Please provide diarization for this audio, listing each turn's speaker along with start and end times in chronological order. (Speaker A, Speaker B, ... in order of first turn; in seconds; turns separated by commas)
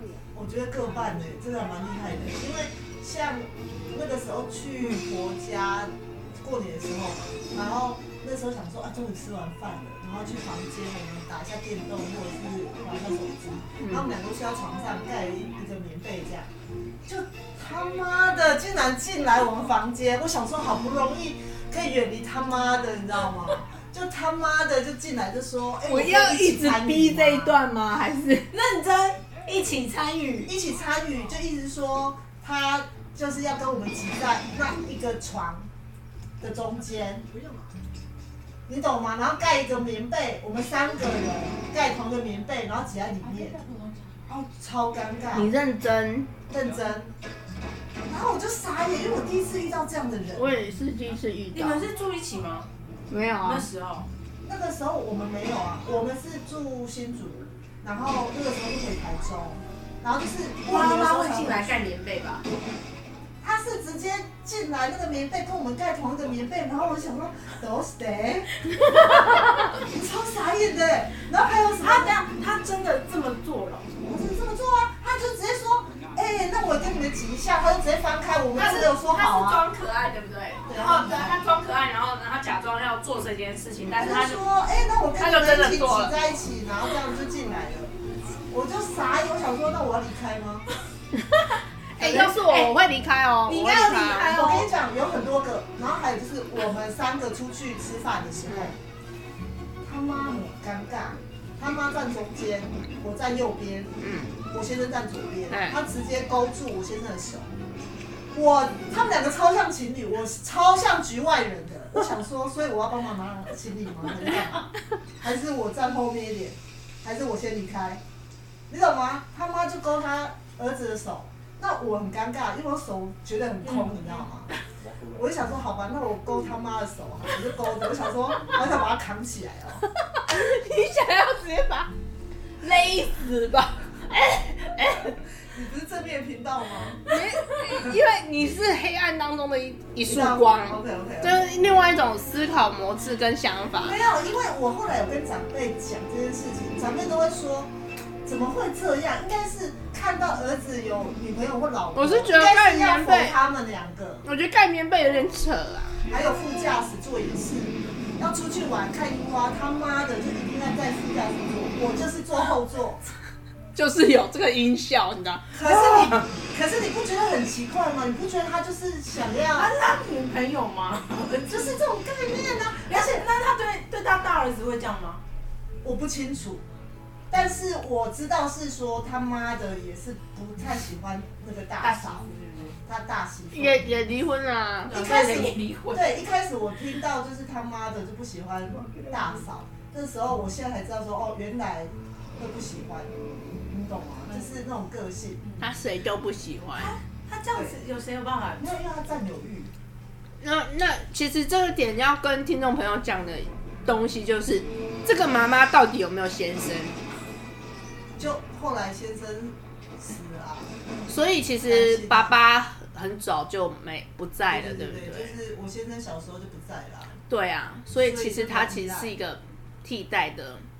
Speaker A: 0.3-16.5, Speaker B: 13.8-14.1, Speaker A: 17.0-27.6, Speaker B: 25.8-28.5, Speaker C: 28.5-30.5, Speaker A: 30.4-35.7, Speaker A: 36.4-37.7, Speaker A: 38.7-43.6, Speaker C: 43.3-44.1, Speaker A: 44.3-45.6, Speaker B: 45.3-46.3, Speaker A: 46.5-47.1, Speaker A: 48.1-50.6, Speaker B: 50.3-51.9, Speaker C: 51.5-52.7, Speaker B: 53.1-53.7, Speaker C: 53.4-54.1, Speaker A: 54.5-61.8, Speaker C: 60.6-62.5, Speaker A: 63.4-68.9, Speaker B: 69.0-69.2, Speaker A: 69.7-72.2, Speaker C: 71.8-74.0, Speaker A: 74.0-79.6, Speaker B: 78.5-84.4, Speaker A: 80.7-81.4, Speaker A: 83.8-87.9, Speaker B: 85.1-86.2, Speaker A: 88.5-90.7, Speaker B: 91.1-94.6, Speaker A: 92.0-92.7, Speaker C: 93.5-94.4, Speaker A: 93.5-98.8, Speaker B: 98.5-98.7, Speaker A: 99.8-103.9, Speaker B: 104.0-104.3, Speaker A: 104.5-107.5, Speaker B: 105.5-105.8, Speaker A: 108.3-118.0, Speaker A: 118.7-124.5, Speaker C: 123.6-124.2, Speaker A: 125.1-129.8, Speaker B: 130.1-131.9, Speaker B: 132.6-135.2, Speaker A: 135.5-137.9, Speaker B: 137.0-144.0, Speaker A: 140.0-141.6, Speaker A: 143.8-147.7, Speaker A: 148.2-154.2, Speaker B: 151.9-153.4, Speaker B: 154.2-156.0, Speaker A: 156.1-163.0, Speaker B: 163.7-166.3, Speaker A: 165.5-169.7, Speaker C: 169.5-171.8, Speaker A: 171.4-173.2, Speaker C: 172.8-175.2, Speaker A: 175.8-176.6, Speaker A: 177.3-182.2, Speaker C: 181.8-182.8, Speaker A: 182.8-183.9, Speaker B: 183.5-185.0, Speaker C: 184.9-186.2, Speaker A: 184.9-195.4, Speaker C: 194.3-194.6, Speaker B: 195.6-196.9, Speaker C: 196.7-198.7, Speaker A: 197.5-197.8, Speaker A: 198.6-199.7, Speaker B: 200.4-207.0, Speaker A: 208.2-210.7, Speaker B: 211.1-215.4, Speaker A: 211.6-212.3, Speaker A: 214.5-217.2, Speaker B: 217.3-220.7, Speaker A: 217.9-219.1